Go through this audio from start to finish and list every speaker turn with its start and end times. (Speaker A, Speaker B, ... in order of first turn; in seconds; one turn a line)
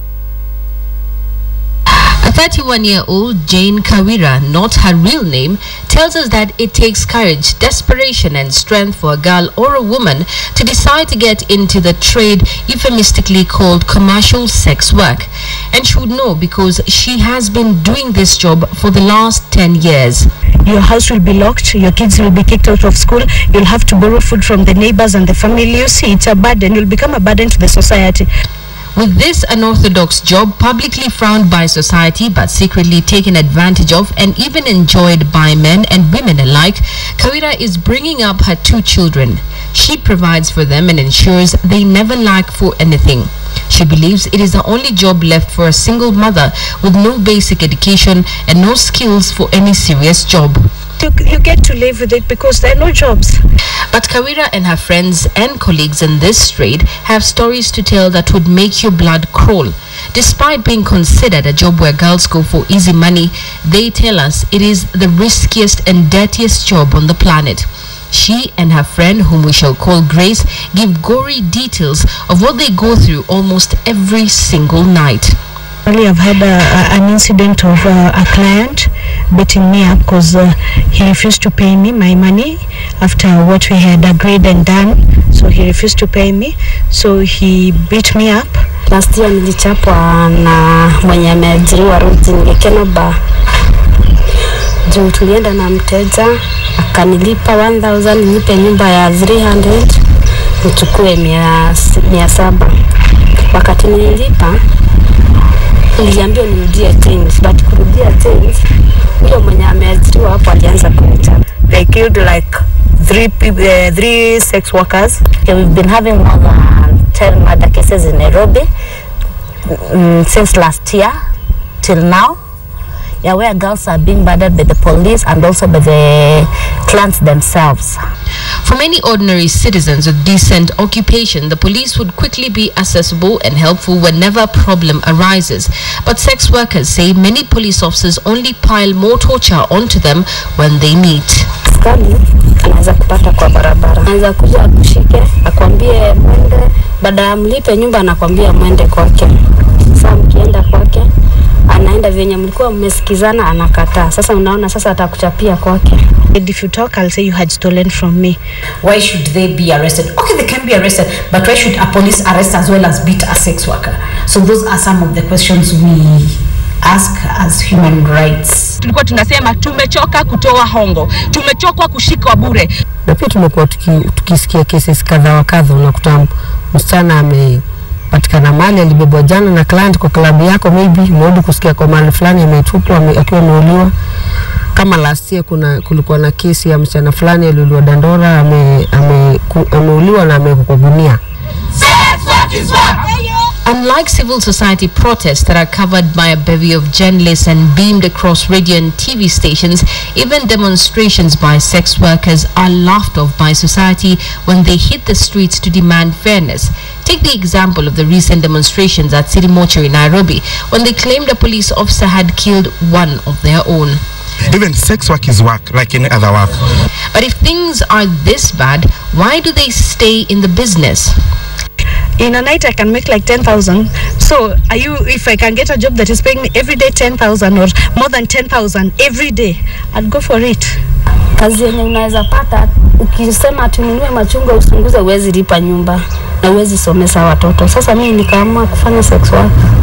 Speaker A: 2.0-20.3
Speaker B: 20.6-28.3
Speaker A: 28.9-50.6
Speaker B: 51.0-53.4
Speaker A: 53.9-75.3
Speaker B: 75.8-88.6
Speaker C: 88.9-93.1
Speaker C: 94.9-100.0
Speaker C: 100.6-102.7
Speaker C: 103.5-104.5
Speaker C: 106.0-108.6
Speaker C: 109.2-111.4
Speaker D: 111.7-112.6
Speaker E: 113.0-118.7
Speaker D: 113.2-114.2
Speaker E: 119.7-121.2
Speaker E: 121.8-122.4
Speaker E: 123.2-128.0
Speaker A: 128.6-141.5
Speaker C: 141.7-149.3
Speaker C: 149.9-151.1
Speaker C: 151.7-156.0
Speaker B: 156.3-158.4
Speaker D: 158.8-168.5
Speaker E: 167.7-168.6
Speaker F: 168.8-172.7
Speaker G: 173.1-183.9
Speaker G: 184.7-191.2
Speaker A: 192.3-192.9
Speaker A: 193.6-214.0
Speaker H: 214.5-216.6
Speaker A: 217.1-221.1
Speaker B: 222.2-230.8
Speaker C: 231.4-239.5